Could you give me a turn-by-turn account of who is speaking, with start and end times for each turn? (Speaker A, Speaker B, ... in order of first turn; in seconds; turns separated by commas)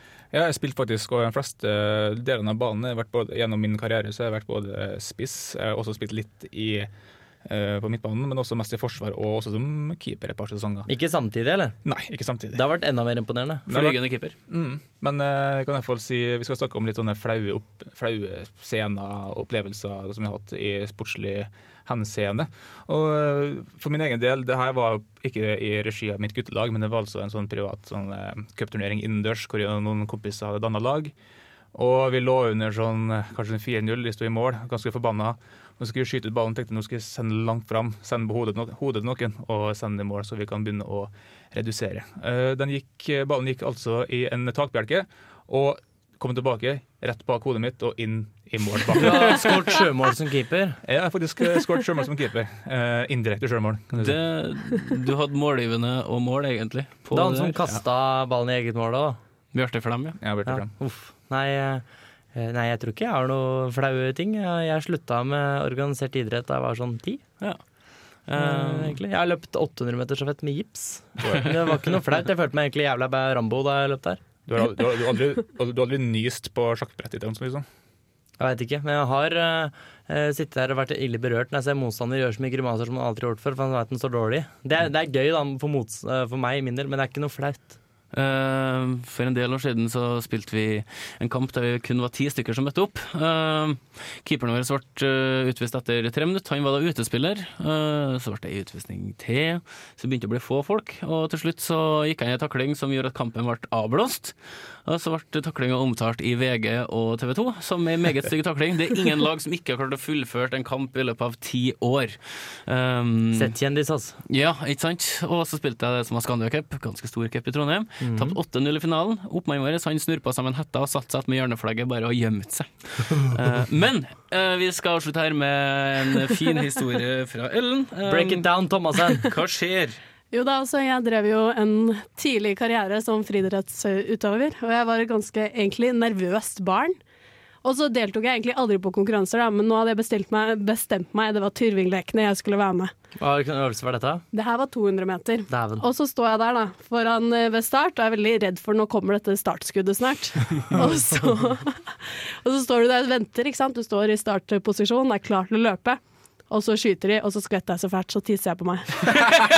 Speaker A: 0.3-6.9, Speaker A: 7.5-10.9, Speaker B: 10.9-11.8, Speaker A: 11.8-12.6, Speaker B: 12.5-13.8, Speaker A: 13.7-31.1, Speaker C: 13.7-14.3, Speaker A: 31.7-49.5, Speaker B: 49.0-50.8, Speaker A: 50.8-54.2, Speaker C: 54.0-57.8, Speaker B: 57.1-59.2, Speaker C: 59.5-60.2, Speaker A: 60.2-60.7, Speaker B: 60.5-67.2, Speaker C: 68.3-69.0, Speaker B: 68.3-74.2, Speaker A: 71.2-71.6, Speaker A: 74.5-77.7, Speaker B: 78.4-87.8, Speaker C: 88.1-113.5, Speaker B: 113.3-114.2, Speaker C: 114.3-128.5, Speaker B: 118.0-118.4, Speaker B: 128.1-129.3, Speaker C: 129.2-130.0, Speaker D: 130.3-137.0, Speaker D: 137.6-142.9, Speaker B: 143.2-144.2, Speaker D: 144.3-159.3, Speaker B: 145.5-145.8